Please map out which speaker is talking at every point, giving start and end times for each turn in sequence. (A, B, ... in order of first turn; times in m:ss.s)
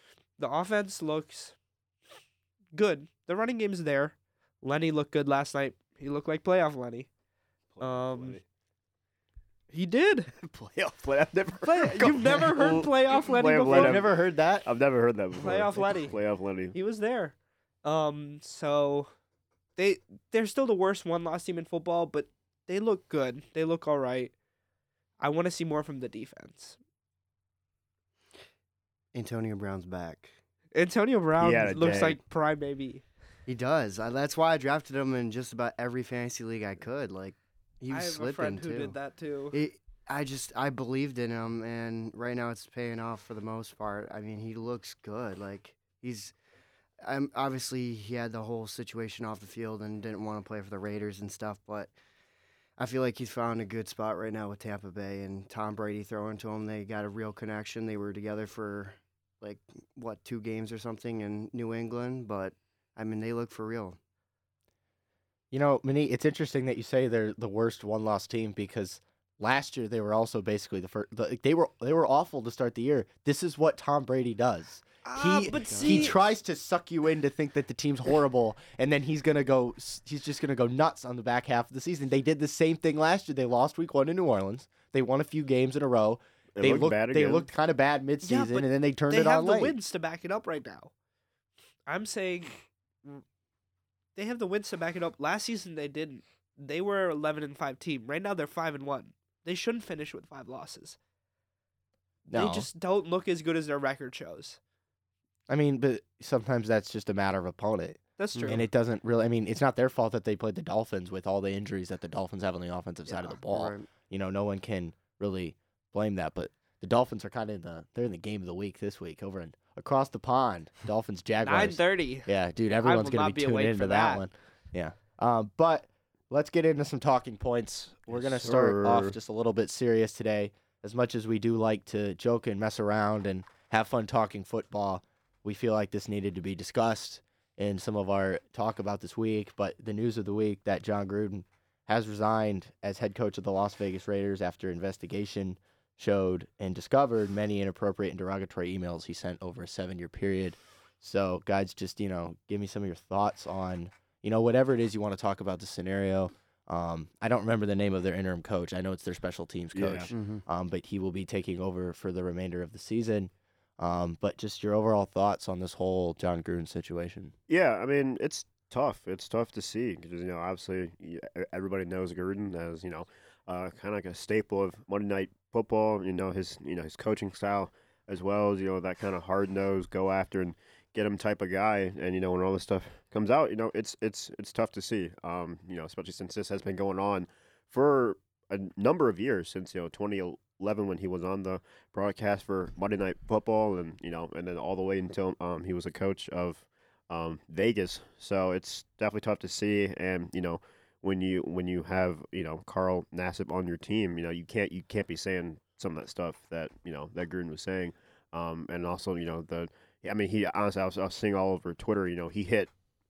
0:00.4-0:01.5 A
0:02.7-0:07.1 A
0:07.7-0:08.4 B
0:07.8-0:08.4 A
0:09.7-0:10.3 A
0:10.3-0:16.8 B
0:11.6-0:14.0 A
0:13.7-0:14.7 C
0:15.4-0:16.2 A
0:16.7-0:19.1 A
0:19.8-0:24.3 A
0:25.2-0:26.8 A
0:29.1-0:30.3 D
0:30.7-0:33.0 A
0:31.4-0:32.2 B
0:33.5-0:38.9 D
0:37.9-0:39.6 A
0:39.5-0:46.3 D
0:47.0-0:51.9 D
0:52.8-1:04.0 D
1:05.5-1:29.8 C
1:15.0-1:16.2 A
1:15.6-1:16.1 D
1:26.6-1:27.5 B
1:28.2-1:30.9 A
1:31.9-1:33.2 A
1:34.2-1:41.0 A
1:42.3-1:42.7 C
1:42.3-1:44.6 A
1:45.5-2:47.3 C
1:48.2-1:48.7 A
1:48.3-1:48.6 D
1:53.1-1:53.9 D
2:01.4-2:02.3 A
2:02.8-2:04.2 A
2:08.1-2:09.1 B
2:39.7-2:40.1 B
2:40.1-2:40.4 D
2:47.5-3:32.7 B